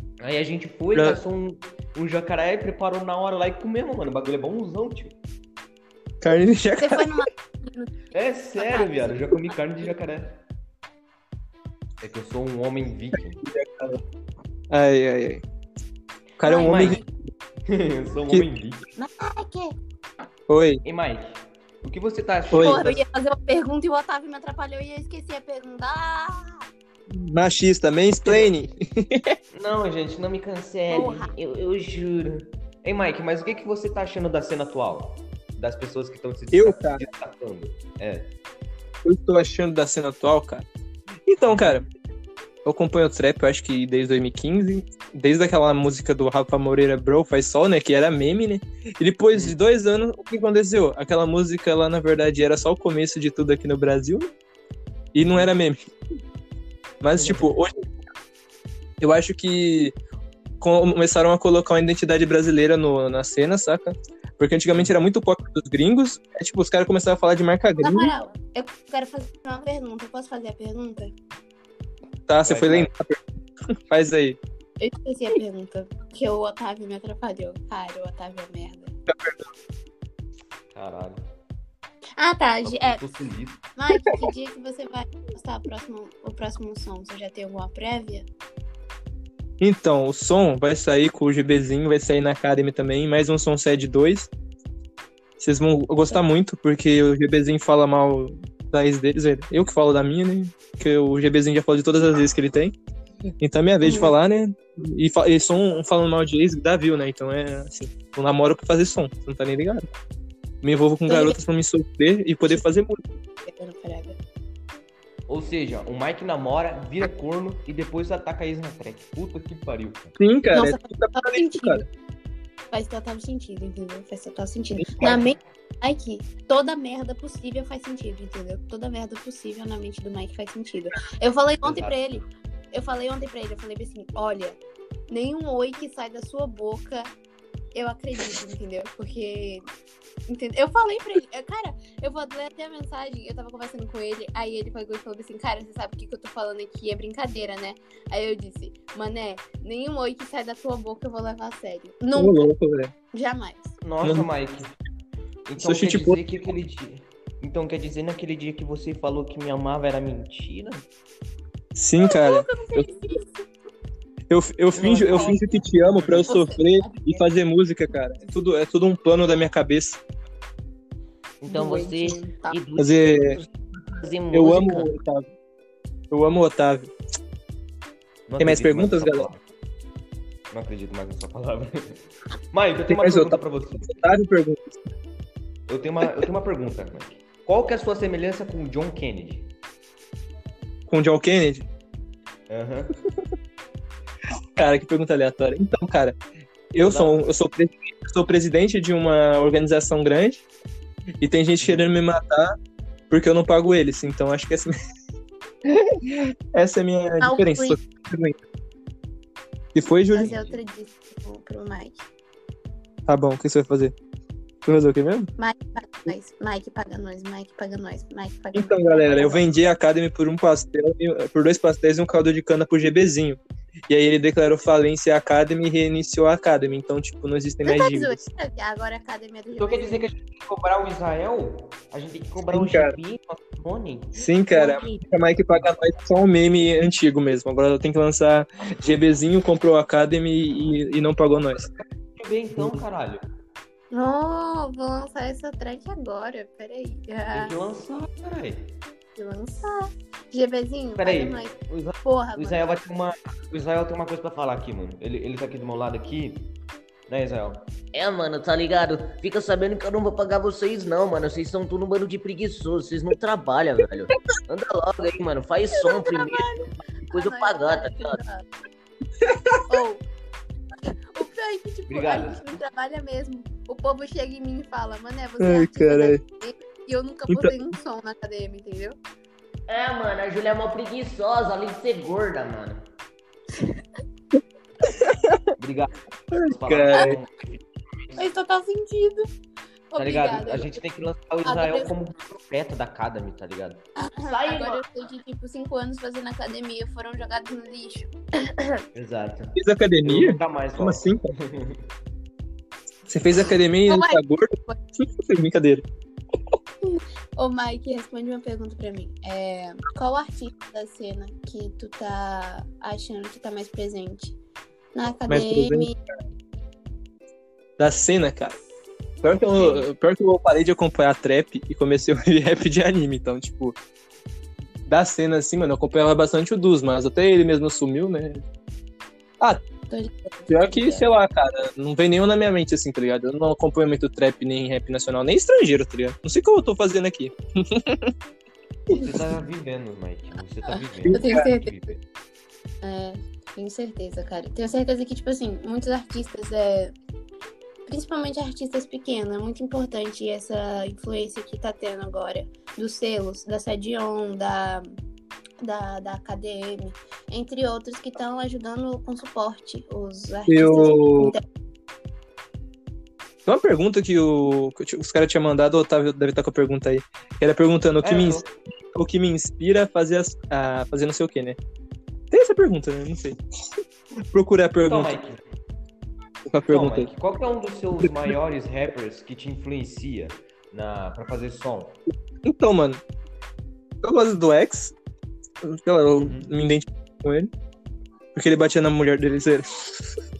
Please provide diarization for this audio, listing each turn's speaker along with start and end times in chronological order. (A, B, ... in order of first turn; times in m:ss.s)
0:00.2-0:05.2 A
0:00.9-0:01.2 B
0:06.2-0:07.2 B
0:06.8-0:09.5 C
0:08.1-0:10.4 A
0:12.0-0:13.4 A
0:13.4-0:14.0 B
0:14.7-0:15.4 B
0:16.4-0:17.0 B
0:16.4-0:17.0 A
0:16.4-0:17.1 C
0:17.6-0:18.9 A
0:19.0-0:19.8 C
0:20.5-0:20.8 B
0:20.8-0:23.0 A
0:22.5-0:22.8 B
0:22.6-0:26.6 C
0:27.1-0:29.4 B
0:28.2-0:28.5 A
0:29.5-0:38.3 A
0:30.9-0:31.3 C
0:36.5-0:37.0 B
0:39.0-0:40.7 B
0:41.3-0:41.8 B
0:41.4-0:41.9 A
0:42.6-0:54.3 B
0:55.1-0:55.8 B
0:55.2-0:55.5 A
0:57.0-0:57.9 B
0:57.1-0:57.5 A
0:59.0-0:59.9 B
1:00.6-1:08.1 B
1:07.8-1:11.1 C
1:12.3-1:13.2 B
1:12.4-1:12.9 A
1:13.9-1:14.4 B
1:14.8-1:18.9 C
1:19.1-1:19.5 B
1:20.7-1:21.2 A
1:22.2-1:23.0 C
1:22.6-1:23.6 A
1:23.8-1:28.3 C
1:29.6-1:34.3 B
1:35.4-1:42.7 B
1:43.4-1:49.8 B
1:43.8-1:44.1 C
1:50.6-1:53.1 B
1:51.0-1:51.4 C
1:53.4-1:54.2 C
1:55.3-2:00.1 A
2:00.2-2:01.8 B
2:00.5-2:01.9 C
2:02.7-2:14.6 C
2:05.0-2:05.3 A
2:11.6-2:12.0 A
2:15.1-2:17.1 C
2:17.7-2:19.7 C
2:20.3-2:32.5 C
2:32.1-2:32.9 B
2:33.1-2:33.8 C
2:33.8-2:34.7 A
2:34.0-2:34.3 B
2:35.5-2:40.8 A
2:35.6-2:36.4 B
2:41.7-2:42.9 B
2:42.0-2:43.3 C
2:44.3-2:50.0 B
2:44.7-2:46.3 A
2:46.2-2:47.2 C
2:51.4-2:54.9 A
2:51.5-2:52.6 C
2:52.8-2:53.4 B
2:54.3-2:55.2 B
2:56.1-2:56.9 B
2:58.3-2:59.4 A
2:58.4-2:59.3 B
3:00.5-3:04.0 A
3:02.9-3:04.8 B
3:05.7-3:09.5 A
3:10.9-3:11.6 B
3:12.5-3:13.0 A
3:14.6-3:16.2 B
3:16.7-3:20.4 B
3:16.8-3:17.3 A
3:21.2-3:22.5 B
3:21.6-3:21.9 A
3:23.1-3:24.7 B
3:25.6-3:28.4 B
3:27.2-3:27.8 C
3:29.7-3:30.3 B
3:30.1-3:32.1 C
3:30.2-3:30.6 A
3:33.1-3:33.9 B
3:34.6-3:35.3 B
3:35.4-3:39.4 C
3:38.5-3:48.2 B
3:47.6-3:50.1 C
3:49.6-3:55.0 A
3:52.5-3:52.9 B
3:54.2-4:01.7 B
4:02.2-4:03.2 A
4:03.9-4:07.6 C
4:07.3-4:08.7 A
4:09.2-4:12.8 C
4:11.0-4:16.5 A
4:17.1-4:26.5 A
4:25.7-4:28.4 C
4:27.0-4:28.2 A
4:29.2-4:29.6 B
4:29.7-4:30.0 C
4:31.1-4:39.0 C
4:31.9-4:32.6 A
4:35.4-4:36.2 B
4:39.7-4:42.8 A
4:44.8-4:45.4 B
4:45.6-4:47.6 A
4:46.3-4:47.2 B
4:48.1-4:49.3 C
4:49.9-4:50.8 C
4:50.0-4:54.8 A
4:51.4-4:51.9 C
4:54.0-4:58.8 C
4:58.9-5:01.8 A
4:59.6-5:01.2 B
5:03.1-5:05.8 B
5:03.9-5:04.8 C
5:06.8-5:14.4 C
5:14.9-5:16.0 C
5:15.3-5:15.9 B
5:17.8-5:18.6 B
5:19.2-5:23.8 B
5:19.4-5:19.8 C
5:24.9-5:28.4 B
5:29.9-5:31.1 C
5:30.5-5:38.1 B
5:38.9-5:42.0 A
5:40.7-5:41.9 C
5:41.0-5:41.4 B
5:42.8-5:46.9 C
5:47.9-5:54.9 C
5:55.6-6:01.4 C
6:00.5-6:01.3 B
6:03.4-6:11.6 B
6:08.0-6:08.4 A
6:12.3-6:13.4 B
6:14.3-6:15.2 B
6:14.8-6:15.4 A
6:16.5-6:17.1 B
6:16.7-6:22.0 A
6:18.0-6:18.3 B
6:22.4-6:23.0 B
6:24.0-6:24.9 B
6:25.6-6:27.5 B
6:26.1-6:26.5 A
6:28.3-6:30.0 B